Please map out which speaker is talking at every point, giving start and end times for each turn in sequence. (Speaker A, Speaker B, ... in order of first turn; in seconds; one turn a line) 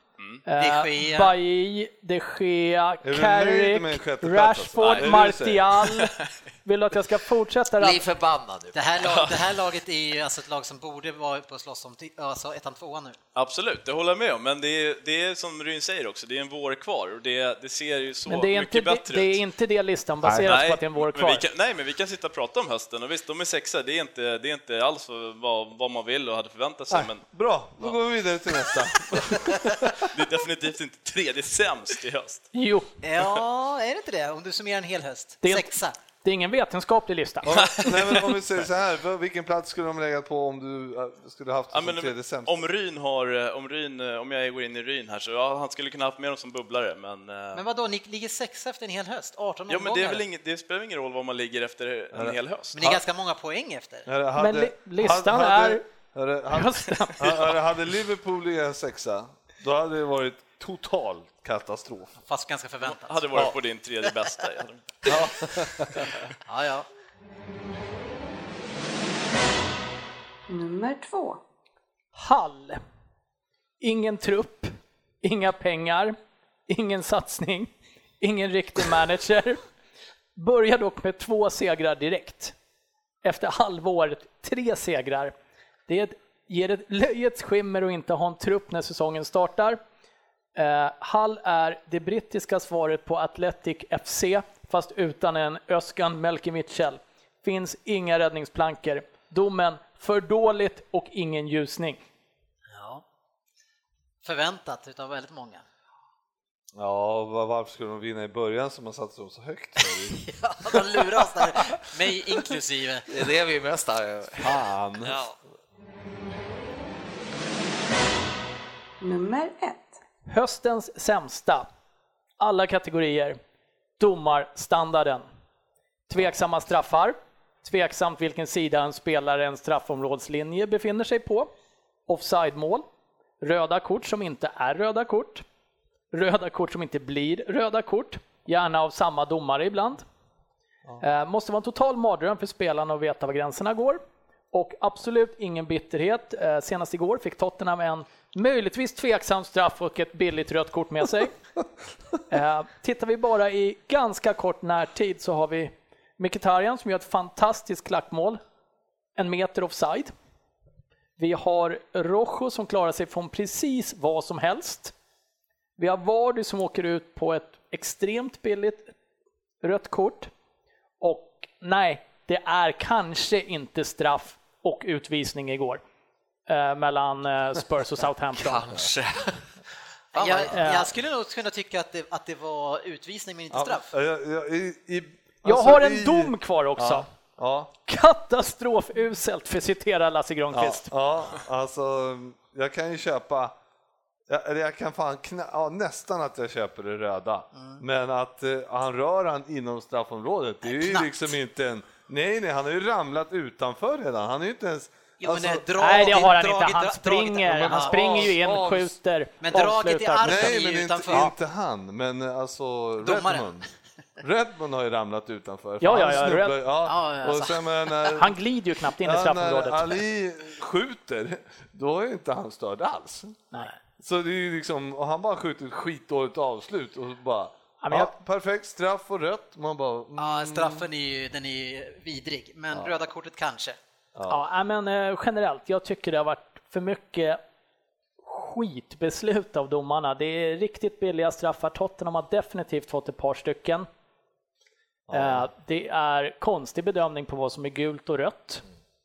Speaker A: 0.2-0.4
Speaker B: 0.5-8.0
Speaker C: 0.6-1.3
Speaker D: 3.0-5.8
Speaker A: 4.8-5.2
Speaker A: 6.0-6.4
Speaker E: 7.8-8.8
Speaker C: 8.7-13.2
Speaker A: 9.0-9.4
Speaker A: 13.3-19.4
Speaker B: 18.3-21.4
Speaker D: 20.2-20.6
Speaker A: 20.3-27.2
Speaker D: 26.9-30.2
Speaker A: 29.1-32.5
Speaker B: 32.5-32.9
Speaker C: 33.0-36.0
Speaker B: 35.4-37.7
Speaker D: 37.5-42.7
Speaker A: 37.6-38.3
Speaker A: 41.7-47.6
Speaker C: 47.5-50.2
Speaker A: 49.7-53.0
Speaker C: 52.7-54.1
Speaker D: 54.0-62.2
Speaker B: 54.4-55.8
Speaker B: 56.5-57.3
Speaker C: 62.2-63.3
Speaker A: 62.8-65.2
Speaker D: 65.0-66.1
Speaker A: 66.0-66.3
Speaker C: 66.5-66.9
Speaker F: 70.5-71.4
Speaker B: 72.1-72.8
Speaker B: 73.8-76.1
Speaker B: 76.7-79.6
Speaker B: 80.3-82.5
Speaker B: 83.2-85.3
Speaker B: 85.9-89.8
Speaker B: 90.5-102.0
Speaker C: 102.7-103.0
Speaker C: 104.2-105.6
Speaker D: 106.7-111.8
Speaker C: 110.1-113.1
Speaker E: 113.1-114.6
Speaker D: 114.4-115.3
Speaker F: 119.0-120.0
Speaker B: 120.3-121.7
Speaker B: 122.4-123.4
Speaker B: 124.0-125.2
Speaker B: 126.1-131.5
Speaker B: 132.1-132.8
Speaker B: 133.4-135.4
Speaker B: 136.1-140.0
Speaker B: 141.0-144.0
Speaker B: 144.5-151.3
Speaker B: 152.3-158.4
Speaker B: 159.2-160.1
Speaker B: 161.2-164.9
Speaker B: 165.8-168.9
Speaker B: 169.6-170.3
Speaker B: 171.0-175.8
Speaker B: 176.5-178.7
Speaker E: 178.3-179.5
Speaker E: 180.1-180.6
Speaker C: 180.1-183.9
Speaker B: 180.5-180.9
Speaker D: 183.5-187.7
Speaker B: 185.4-187.1
Speaker B: 187.9-190.9
Speaker D: 190.5-193.5
Speaker D: 194.3-206.0
Speaker C: 197.5-197.8
Speaker C: 200.6-201.3
Speaker C: 205.2-208.3
Speaker B: 205.8-210.6
Speaker D: 207.5-209.0
Speaker C: 209.4-211.3
Speaker D: 210.2-213.7
Speaker C: 213.0-213.5
Speaker D: 214.2-218.3
Speaker B: 215.8-216.6
Speaker C: 216.8-217.9
Speaker B: 218.1-220.0
Speaker D: 219.0-223.5
Speaker D: 224.0-230.8
Speaker B: 227.8-228.1
Speaker C: 230.2-233.8
Speaker D: 234.1-234.4
Speaker B: 234.3-237.4
Speaker B: 238.2-243.9
Speaker D: 245.1-245.5
Speaker B: 245.1-248.6